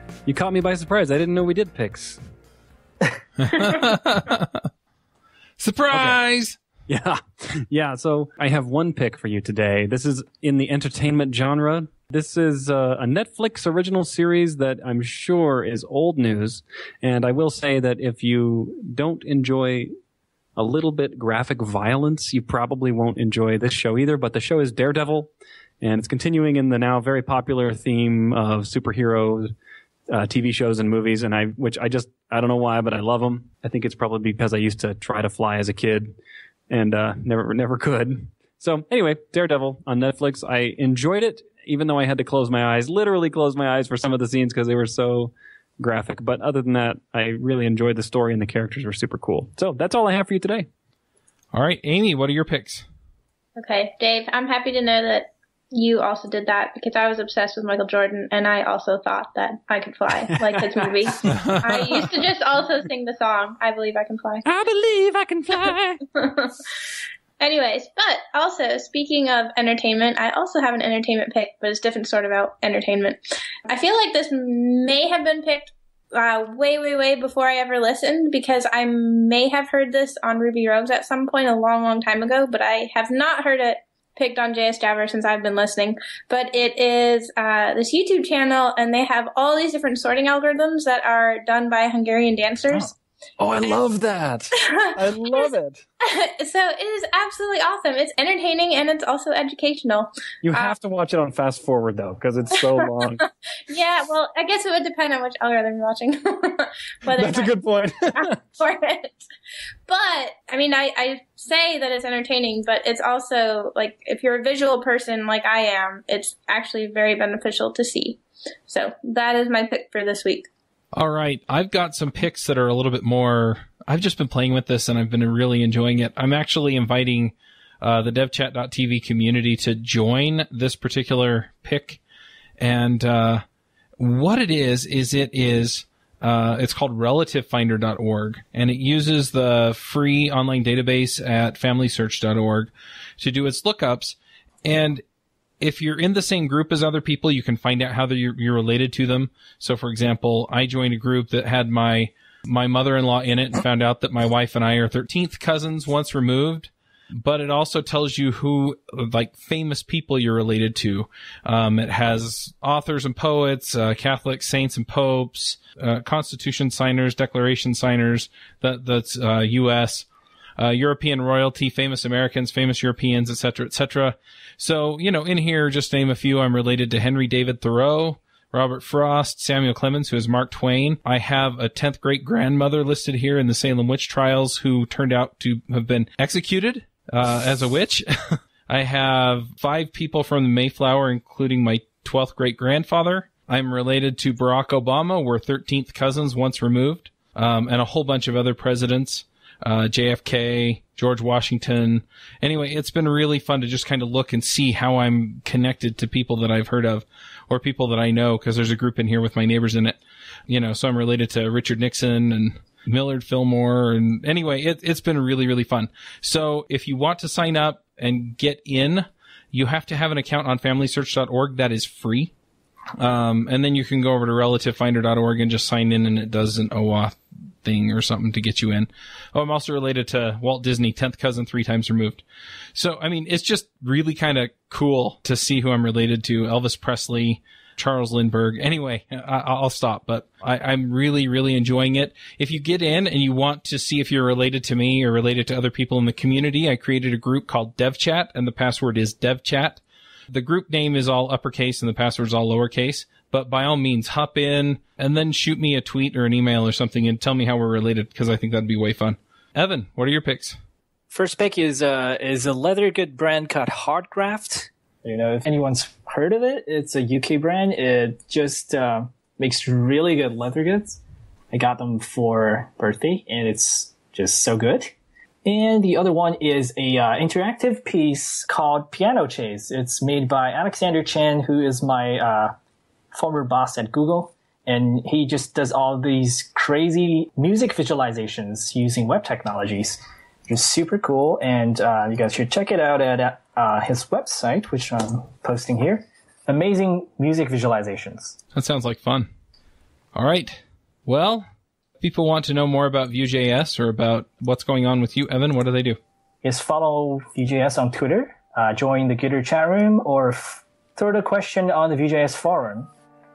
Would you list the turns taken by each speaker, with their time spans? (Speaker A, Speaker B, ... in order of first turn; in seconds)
Speaker A: 0.3-2.2, 5.9-6.2, 6.9-19.9, 20.6-29.5, 30.1-36.1, 36.7-50.7, 64.8-65.7, 93.4-95.8, 100.4-103.2, 107.1-108.4
Speaker B: 3.4-4.6, 5.6-6.6, 51.5-52.9, 61.2-61.8, 64.5-65.8, 120.9-132.0, 132.6-133.4, 134.0-145.0, 145.6-222.3, 223.0-232.2, 232.8-260.6, 298.6-299.3, 300.1-301.5, 302.0-306.0
Speaker C: 53.6-64.5, 66.2-66.5, 67.4-92.9, 94.6-100.8, 103.7-109.2, 109.9-120.5
Speaker D: 261.1-271.0, 271.5-274.9, 275.4-282.5, 283.1-298.4, 306.4-312.9